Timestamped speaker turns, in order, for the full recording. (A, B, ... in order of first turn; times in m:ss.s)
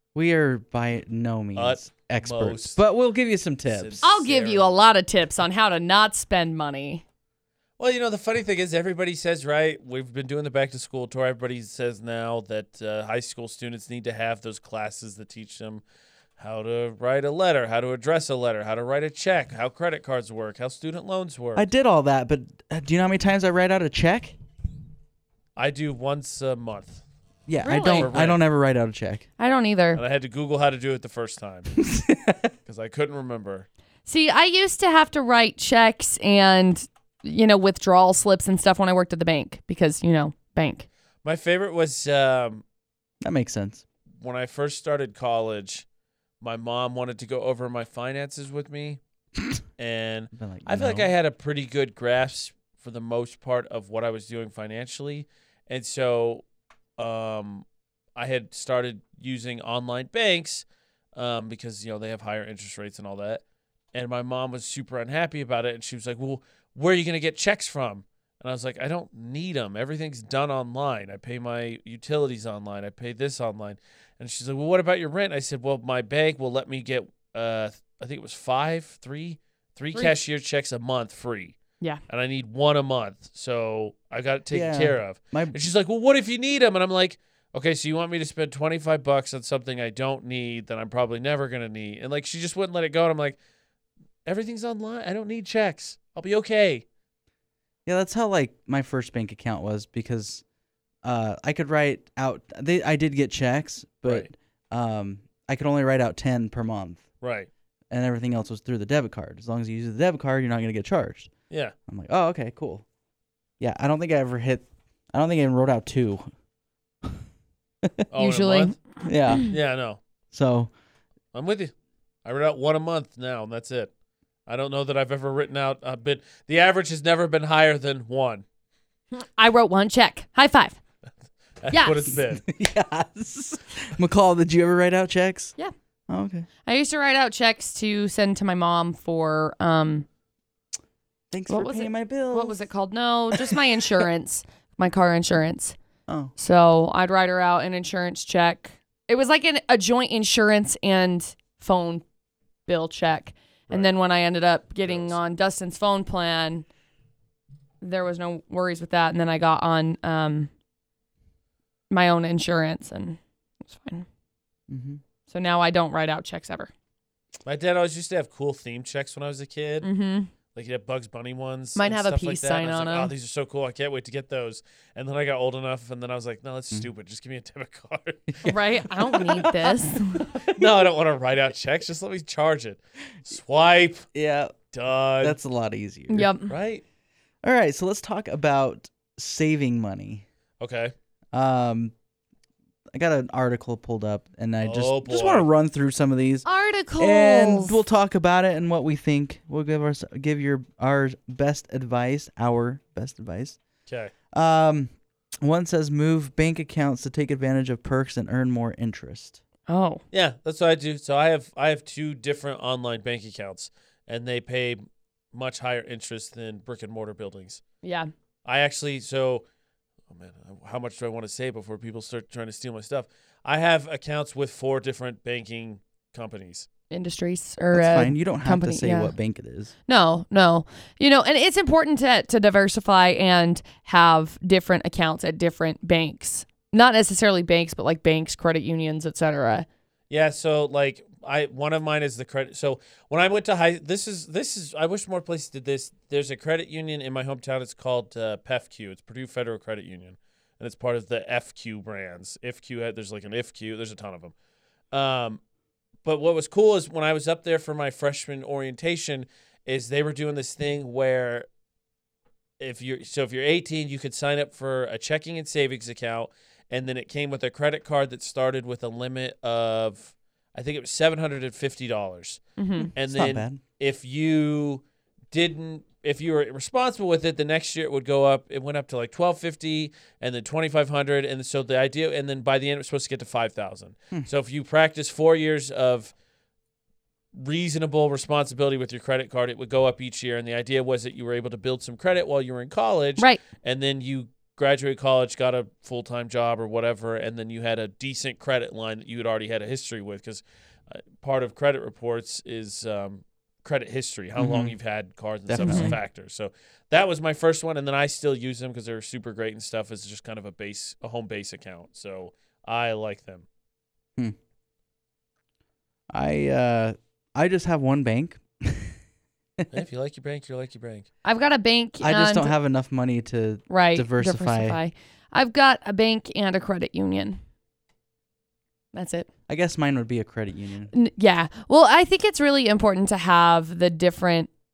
0:00.1-0:04.0 A
0:01.6-0:02.8 B
0:03.7-0:04.7 B
0:04.0-0:07.0 C
0:07.8-0:15.8 B
0:16.4-0:21.6 B
0:21.6-0:24.4 A
0:25.6-0:27.0 B
0:27.5-0:29.2 A
0:27.6-0:28.1 C
0:27.9-0:28.4 B
0:29.4-0:30.0 C
0:29.9-0:31.7 B
0:31.8-0:32.5 A
0:32.6-0:33.7 B
0:34.0-0:40.9 C
0:41.2-0:42.6 B
0:43.2-0:43.8 A
0:44.2-0:45.8 B
0:46.4-0:49.0 B
0:49.8-0:56.4 B
0:50.3-0:51.1 A
0:57.0-1:21.6 B
1:22.1-1:33.4 B
1:24.5-1:25.7 A
1:34.2-1:36.8 B
1:37.8-1:40.4 A
1:41.0-1:47.0 A
1:47.2-1:47.5 B
1:47.9-1:51.3 A
1:51.9-1:52.8 A
1:53.6-1:56.3 A
1:58.1-1:58.8 B
1:58.2-1:58.8 C
1:59.0-1:59.5 A
1:59.5-2:00.0 B
2:00.3-2:00.7 A
2:01.3-2:01.7 B
2:02.2-2:03.9 B
2:04.5-2:08.4 B
2:09.2-2:10.8 C
2:11.6-2:12.4 B
2:11.7-2:12.1 C
2:12.1-2:15.5 A
2:16.1-2:16.5 A
2:16.6-2:20.0 C
2:21.3-2:22.6 A
2:21.5-2:25.8 C
2:23.3-2:24.0 A
2:26.1-2:26.3 A
2:26.4-2:32.0 C
2:32.7-2:36.7 C
2:34.8-2:35.2 B
2:37.8-2:40.5 C
2:41.9-2:44.0 C
2:44.7-2:45.0 A
2:45.3-2:46.7 C
2:47.4-2:49.9 B
2:49.8-2:50.3 C
2:50.5-2:58.5 B
2:51.8-2:53.1 C
2:58.3-3:00.7 A
2:58.4-3:00.3 C
3:00.4-3:04.1 B
3:04.1-3:04.5 A
3:04.7-3:05.4 B
3:05.2-3:06.3 A
3:06.1-3:06.5 C
3:06.5-3:06.8 B
3:07.4-3:10.2 A
3:10.6-3:10.9 B
3:11.3-3:11.9 A
3:12.9-3:16.4 A
3:14.6-3:15.5 B
3:16.4-3:17.8 C
3:17.0-3:23.6 A
3:23.9-3:24.1 B
3:24.3-3:29.4 A
3:29.7-3:30.0 C
3:30.1-3:34.8 B
3:35.3-3:37.6 B
3:37.8-3:38.1 C
3:38.4-3:39.4 B
3:40.1-3:46.7 B
3:46.9-3:49.1 C
3:47.7-3:49.7 A
3:49.9-3:59.6 C
4:00.1-4:14.3 B
4:14.9-4:15.4 B
4:16.0-4:21.5 B
4:22.6-4:32.4 B
4:32.6-4:32.9 C
4:32.9-4:46.1 B
4:33.1-4:33.6 A
4:47.3-5:13.4 B
5:04.4-5:04.7 A
5:05.5-5:06.0 A
5:05.6-5:06.0 C
5:16.1-5:19.0 A
5:19.7-5:21.1 B
5:21.2-5:22.5 C
5:22.0-5:24.8 A
5:23.7-5:27.4 C
5:28.9-5:29.3 C
5:29.5-5:30.9 A
5:30.9-5:34.5 C